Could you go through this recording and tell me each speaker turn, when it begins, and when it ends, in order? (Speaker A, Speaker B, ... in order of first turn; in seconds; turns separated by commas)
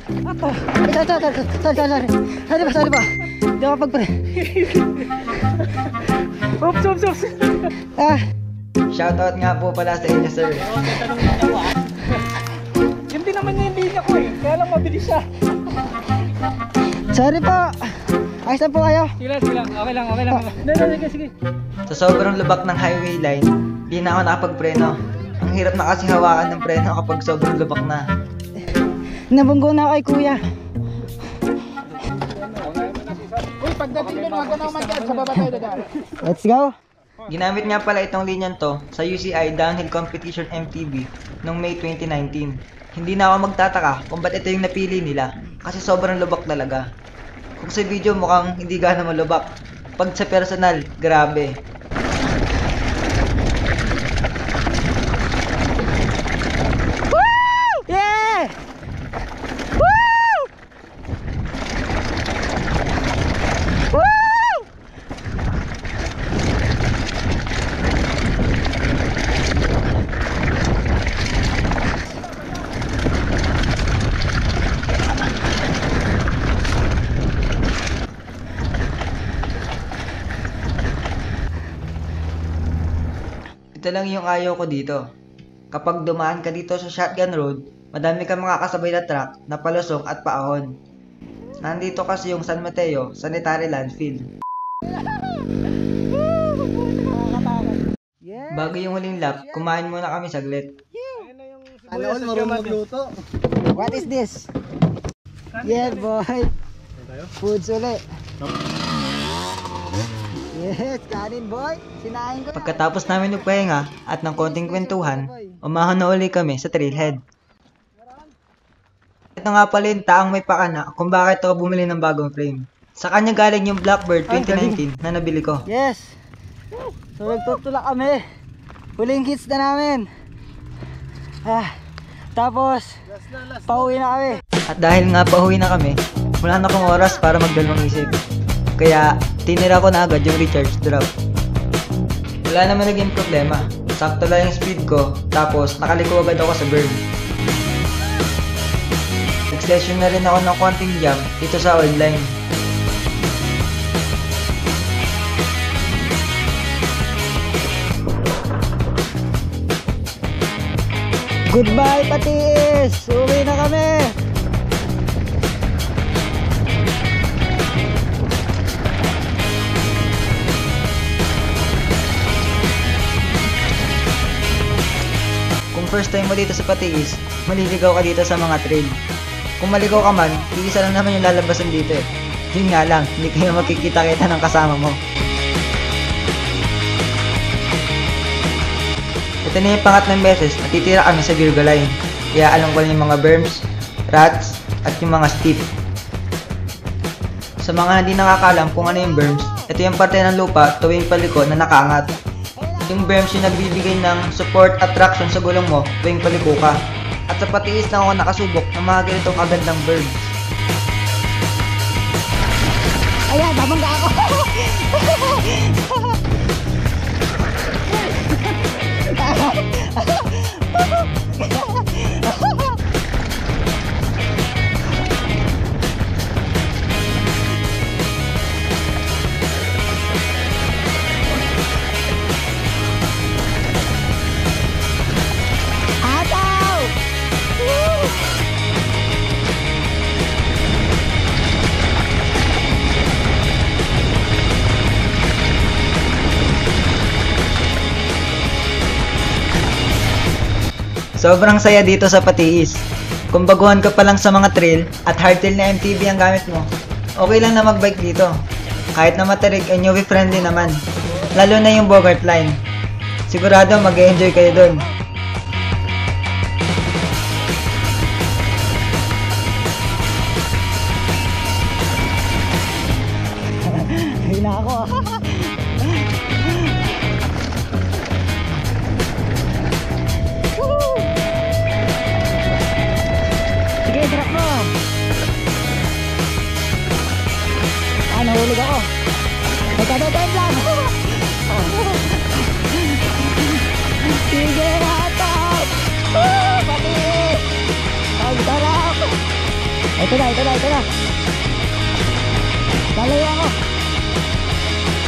Speaker A: 0.3-4.8, Speaker A: 6.6-7.0, Speaker B: 6.6-7.7, Speaker A: 7.8-8.2, Speaker C: 8.9-10.7, Speaker B: 10.8-11.8, Speaker B: 13.1-15.3, Speaker A: 17.1-19.1, Speaker B: 19.2-21.3, Speaker C: 21.9-28.0, Speaker A: 29.3-30.4, Speaker B: 32.6-35.9, Speaker A: 36.1-36.7, Speaker C: 37.3-46.9, Speaker C: 47.6-51.5, Speaker A: 57.6-58.6, Speaker C: 83.8-85.0, Speaker C: 85.7-90.7, Speaker C: 91.6-94.3, Speaker A: 95.2-95.5, Speaker A: 96.3-98.8, Speaker C: 98.5-100.7, Speaker A: 99.3-99.7, Speaker B: 101.6-102.9, Speaker A: 103.7-104.5, Speaker A: 105.5-106.5, Speaker A: 107.2-108.0, Speaker A: 110.5-112.8, Speaker C: 112.5-117.2, Speaker A: 114.3-115.6, Speaker C: 119.4-125.7, Speaker A: 124.3-124.8, Speaker A: 125.7-126.2, Speaker A: 127.2-128.2, Speaker A: 129.0-130.1, Speaker A: 131.4-131.7, Speaker A: 132.3-134.4, Speaker C: 134.7-138.2, Speaker C: 138.8-141.1, Speaker C: 142.5-147.0, Speaker C: 149.5-152.3, Speaker A: 161.5-164.2, Speaker C: 175.7-179.0, Speaker C: 179.6-185.0, Speaker C: 189.4-195.7, Speaker C: 197.6-202.1, Speaker A: 198.6-199.7, Speaker A: 201.9-203.3, Speaker C: 202.9-206.8, Speaker C: 207.3-210.3, Speaker A: 213.3-216.2, Speaker A: 218.2-222.8, Speaker A: 236.0-237.0, Speaker C: 251.2-252.8, Speaker C: 253.3-256.7, Speaker C: 257.2-258.3, Speaker C: 258.9-260.8, Speaker C: 261.3-262.6, Speaker C: 263.3-264.9, Speaker A: 273.6-275.7, Speaker A: 280.6-281.1, Speaker A: 283.9-284.8, Speaker A: 288.1-288.9, Speaker A: 289.8-293.3, Speaker A: 294.1-297.5, Speaker A: 298.2-299.2, Speaker A: 300.0-300.9, Speaker A: 303.0-303.5